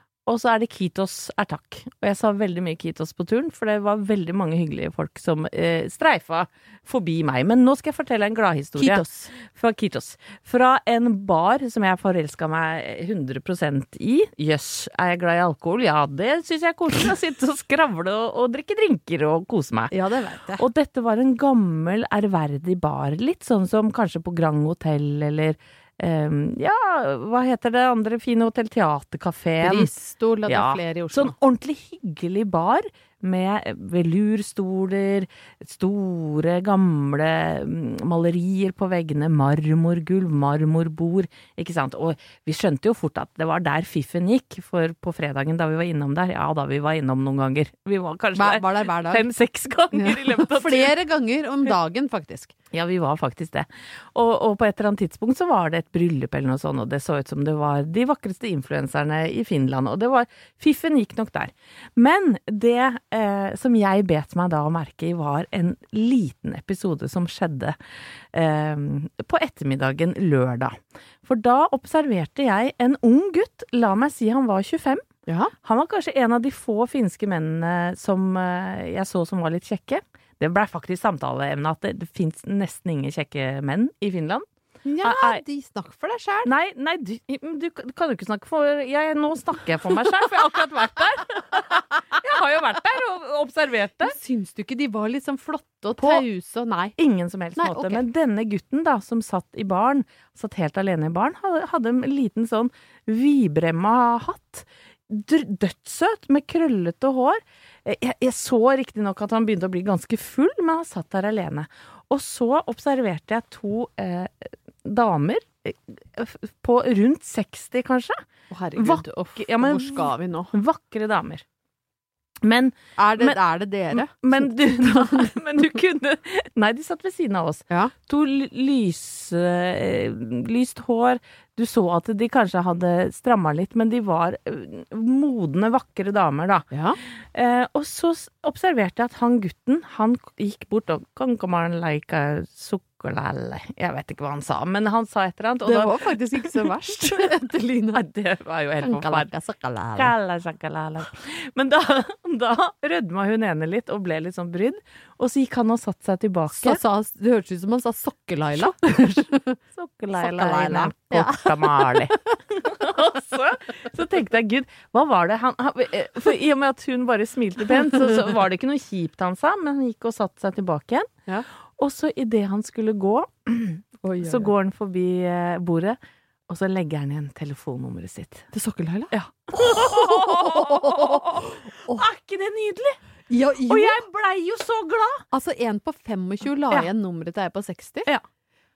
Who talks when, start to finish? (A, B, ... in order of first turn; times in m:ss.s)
0:00.3-0:19.9 A
0:08.8-0:09.3 B
0:19.9-0:20.6 B
0:20.6-0:29.9 A
0:29.6-0:31.3 B
0:30.5-0:50.9 A
0:48.3-0:49.2 B
0:49.9-0:52.5 B
0:52.7-1:07.8 A
1:08.3-1:15.0 A
1:15.3-1:15.5 B
1:15.6-1:24.4 A
1:24.8-1:26.5 B
1:25.0-1:25.4 A
1:26.4-1:34.2 A
1:34.0-1:36.9 B
1:36.0-1:36.2 A
1:37.0-1:58.2 A
1:37.6-1:38.0 B
1:58.5-2:00.5 B
1:58.8-2:01.4 A
2:02.4-2:03.4 A
2:03.0-2:05.3 B
2:03.9-2:16.7 A
2:16.7-2:17.0 B
2:17.3-2:27.3 A
2:25.6-2:28.0 B
2:27.9-2:29.3 A
2:28.8-2:30.1 B
2:30.0-2:36.8 A
2:36.5-2:39.6 B
2:38.6-2:39.0 A
2:39.7-2:51.1 A
2:40.2-2:41.9 B
2:51.8-2:56.0 A
2:54.0-2:54.5 B
2:56.5-2:58.4 A
2:58.5-3:02.0 B
2:59.1-3:03.0 A
3:03.3-3:04.0 B
3:03.7-3:05.2 A
3:05.3-3:08.1 B